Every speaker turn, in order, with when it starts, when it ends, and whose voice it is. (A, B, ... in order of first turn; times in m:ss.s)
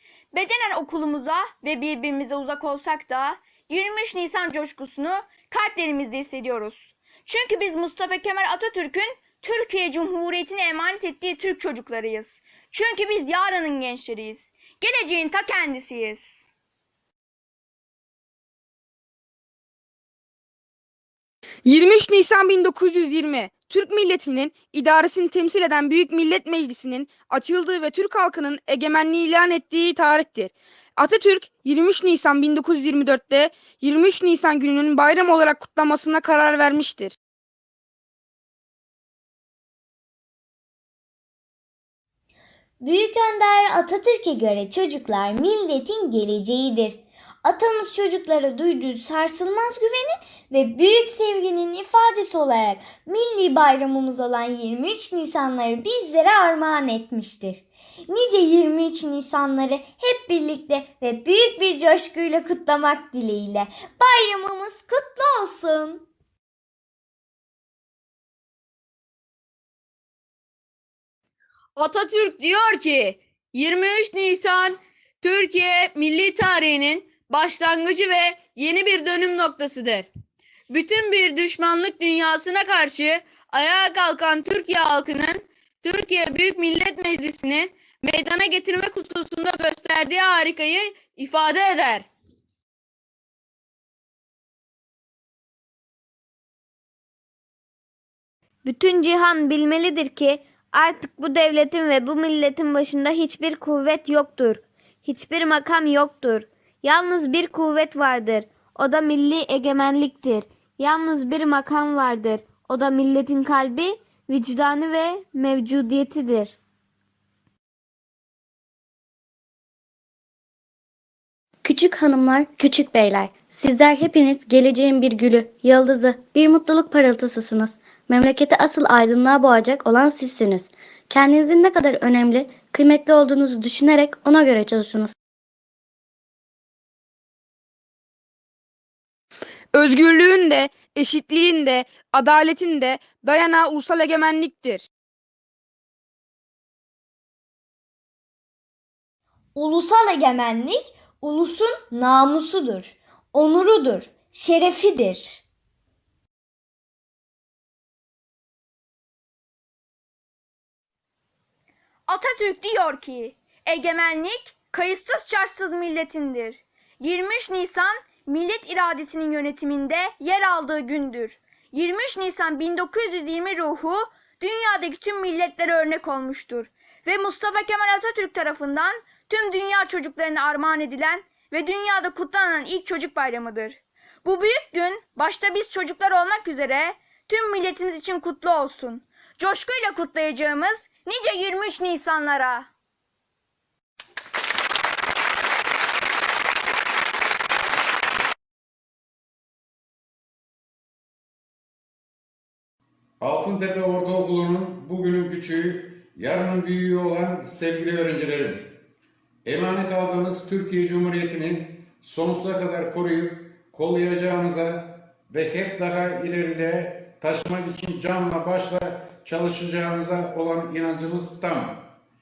0:00.3-0:16.5 A
0:21.6-0:37.1 B
0:42.8-1:06.1 C
1:11.8-1:20.1 D
1:20.7-1:32.1 D
1:38.6-1:56.6 E
2:01.6-2:15.1 F
2:19.7-2:24.9 B
2:29.5-2:35.4 C
2:42.1-3:12.7 A
3:23.2-3:28.7 G
3:29.4-3:41.8 G